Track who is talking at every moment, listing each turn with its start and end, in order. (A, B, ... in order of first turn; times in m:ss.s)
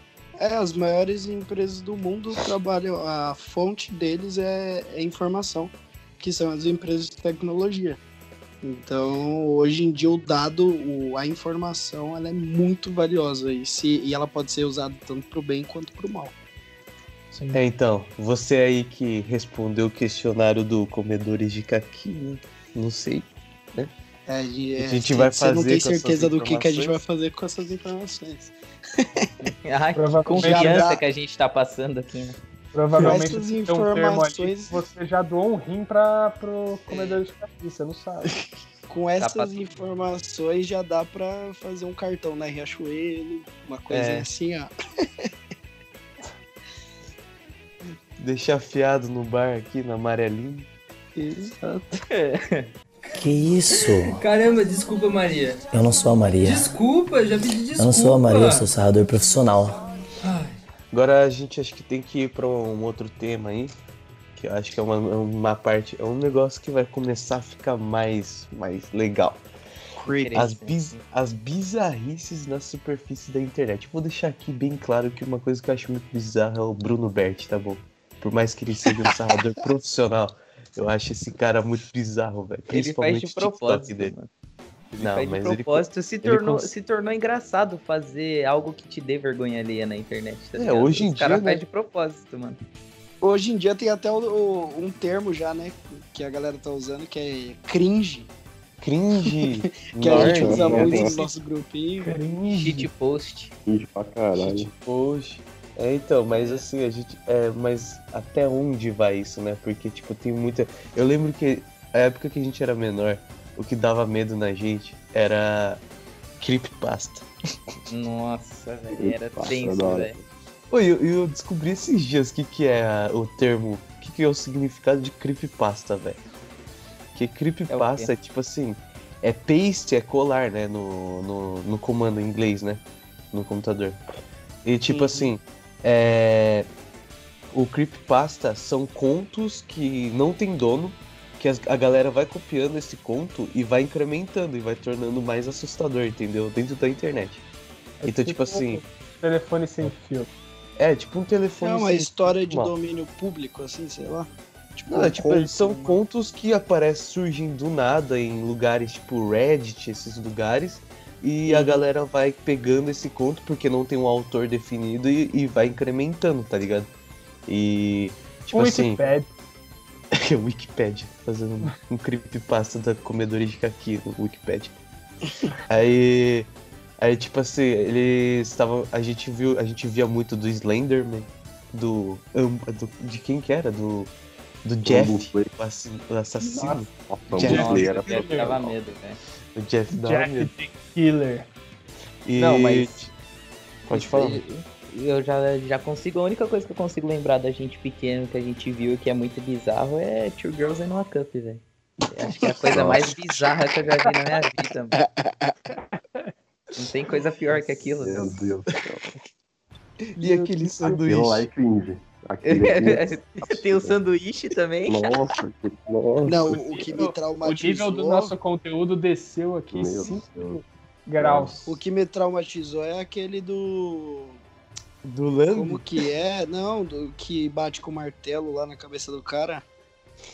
0:00.4-0:08.0 A
0:08.6-0:16.3 A
0:17.3-0:17.6 B
0:17.5-0:23.9 C
0:24.3-0:29.3 A
0:24.8-0:27.0 C
0:29.4-0:32.4 D
0:30.0-0:30.8 B
0:30.3-0:31.0 A
0:32.7-0:38.3 B
0:33.0-0:34.8 A
0:36.9-0:37.2 D
0:38.9-0:44.7 A
0:39.2-0:39.5 D
0:43.9-0:44.3 C
0:48.2-0:50.7 C
0:51.2-0:52.0 A
0:52.1-0:52.7 D
0:53.1-0:54.2 E
0:53.7-0:55.6 F
0:55.7-0:56.7 E
0:56.4-0:58.6 F
0:57.8-0:59.8 E
1:00.2-1:00.6 F
1:00.9-1:03.8 C
1:04.4-1:09.4 C
1:10.0-1:10.5 A
1:10.1-1:10.9 D
1:10.3-1:24.1 C
1:22.7-1:24.3 D
1:24.9-1:26.7 C
1:24.9-1:32.6 D
1:30.6-1:31.6 C
1:33.2-1:38.3 A
1:38.8-1:41.1 C
1:39.9-1:42.1 A
1:40.1-1:41.1 G
1:40.8-1:41.3 B
1:42.0-1:42.9 B
1:42.5-1:43.5 D
1:43.7-1:44.7 G
1:44.4-1:55.8 C
1:46.3-1:46.6 D
1:56.4-1:57.3 C
1:57.9-2:00.1 D
1:58.9-2:00.2 G
2:00.7-2:06.2 C
2:07.1-2:14.0 C
2:07.7-2:08.1 D
2:14.6-2:16.7 C
2:14.9-2:15.3 A
2:17.5-2:27.4 C
2:28.0-2:30.3 B
2:28.0-2:28.8 C
2:30.8-2:32.7 C
2:31.6-2:36.0 A
2:34.9-2:46.9 C
2:47.5-2:49.1 C
2:48.5-2:49.3 B
2:50.1-2:54.7 C
2:55.7-3:04.1 C
3:04.6-3:07.9 C
3:04.8-3:05.5 G
3:06.7-3:08.7 G
3:07.4-3:09.2 D
3:07.4-3:08.5 B
3:09.5-3:10.5 C
3:09.9-3:11.5 B
3:12.2-3:13.1 C
3:12.4-3:13.1 D
3:13.9-3:14.4 C
3:13.9-3:25.0 D
3:22.3-3:22.9 A
3:22.6-3:23.2 G
3:25.0-3:25.7 A
3:26.8-3:28.5 D
3:27.9-3:29.1 G
3:30.2-3:31.5 C
3:30.7-3:34.0 G
3:32.4-3:32.9 C
3:32.6-3:35.2 D
3:34.9-3:37.1 G
3:36.2-3:41.6 B
3:36.2-3:38.3 A
3:39.7-3:40.6 G
3:41.2-3:41.8 G
3:41.6-3:44.4 A
3:45.0-3:45.9 C
3:45.5-3:49.6 A